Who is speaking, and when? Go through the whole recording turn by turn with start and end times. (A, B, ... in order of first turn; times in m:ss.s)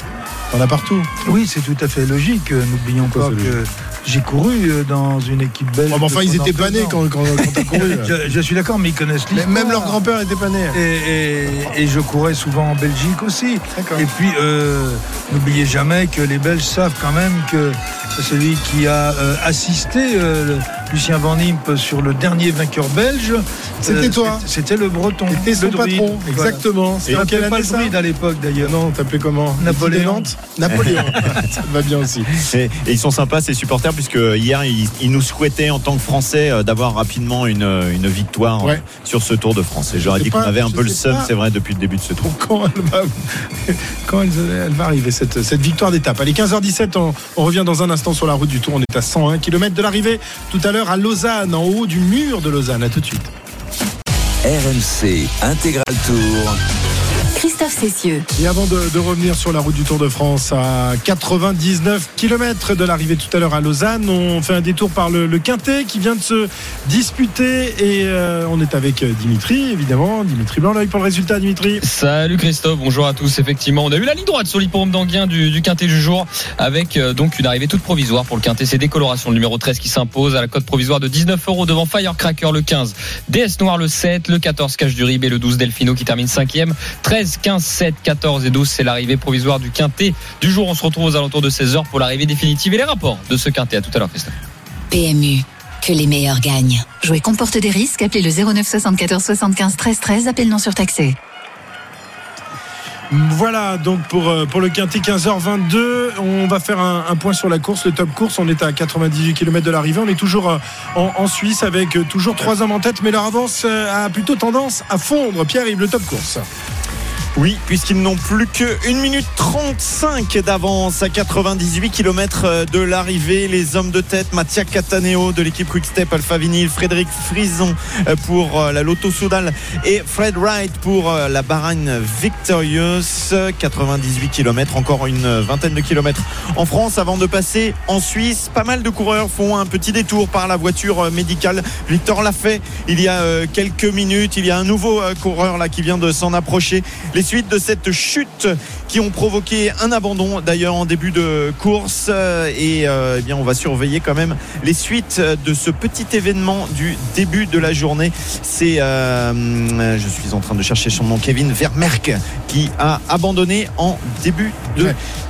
0:00.5-0:01.1 A
0:01.2-0:10.0 B
0:03.0-0:03.5 A
0:05.9-0:08.1 A
0:09.3-0:10.8 A
0:10.7-0:28.7 B
0:13.7-0:14.0 A
0:23.8-0:24.4 A
0:25.3-0:27.9 A
0:28.6-0:32.4 A
0:29.6-0:30.3 B
0:30.7-0:31.1 C
0:32.4-0:42.2 C
0:39.9-0:41.3 A
0:42.2-0:53.3 A
0:54.4-0:56.6 D
0:57.3-0:58.2 E
0:58.3-1:11.8 A
1:11.8-1:34.3 F
1:34.9-1:41.2 E
1:43.1-1:56.4 A
1:57.4-2:45.0 C